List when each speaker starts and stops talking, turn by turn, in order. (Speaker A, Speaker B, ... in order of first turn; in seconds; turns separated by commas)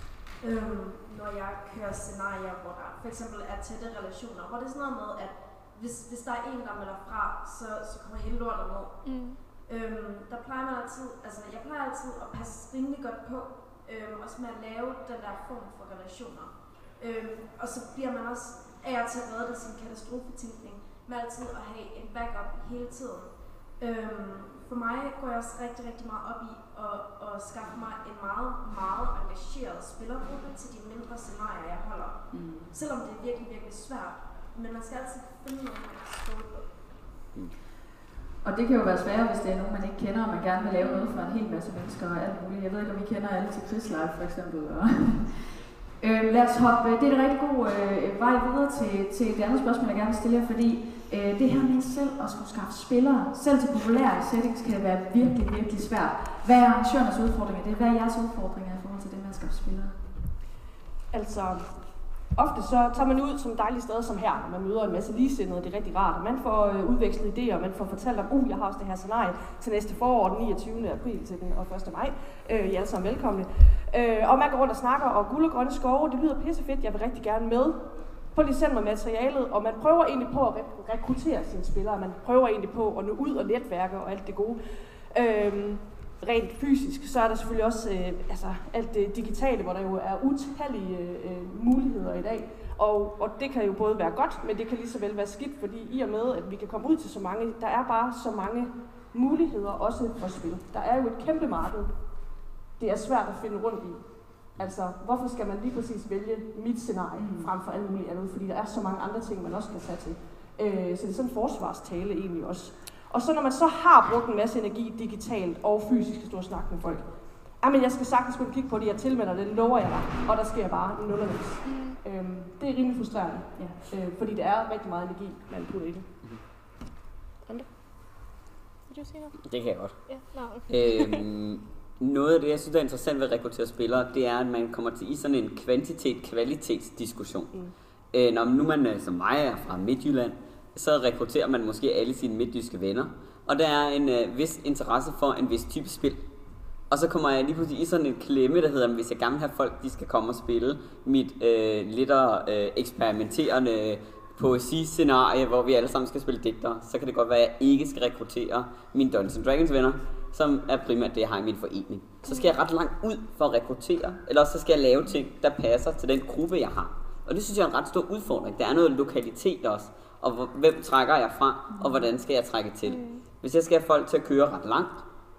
Speaker A: 0.4-9.0, Speaker B: 9.0-9.4, Speaker A: 9.7-36.9, Speaker C: 32.3-32.7, Speaker C: 38.4-45.4, Speaker B: 40.8-41.2, Speaker C: 46.0-60.0, Speaker D: 61.1-61.8, Speaker D: 62.3-84.6, Speaker D: 85.1-101.9, Speaker D: 102.8-126.1, Speaker C: 107.1-107.5, Speaker B: 121.6-122.0, Speaker B: 128.9-129.3, Speaker E: 129.4-130.0, Speaker B: 130.1-131.2, Speaker E: 130.7-137.5, Speaker E: 138.1-146.2, Speaker E: 146.9-175.0, Speaker B: 162.3-162.6, Speaker C: 171.7-172.1, Speaker B: 172.8-173.2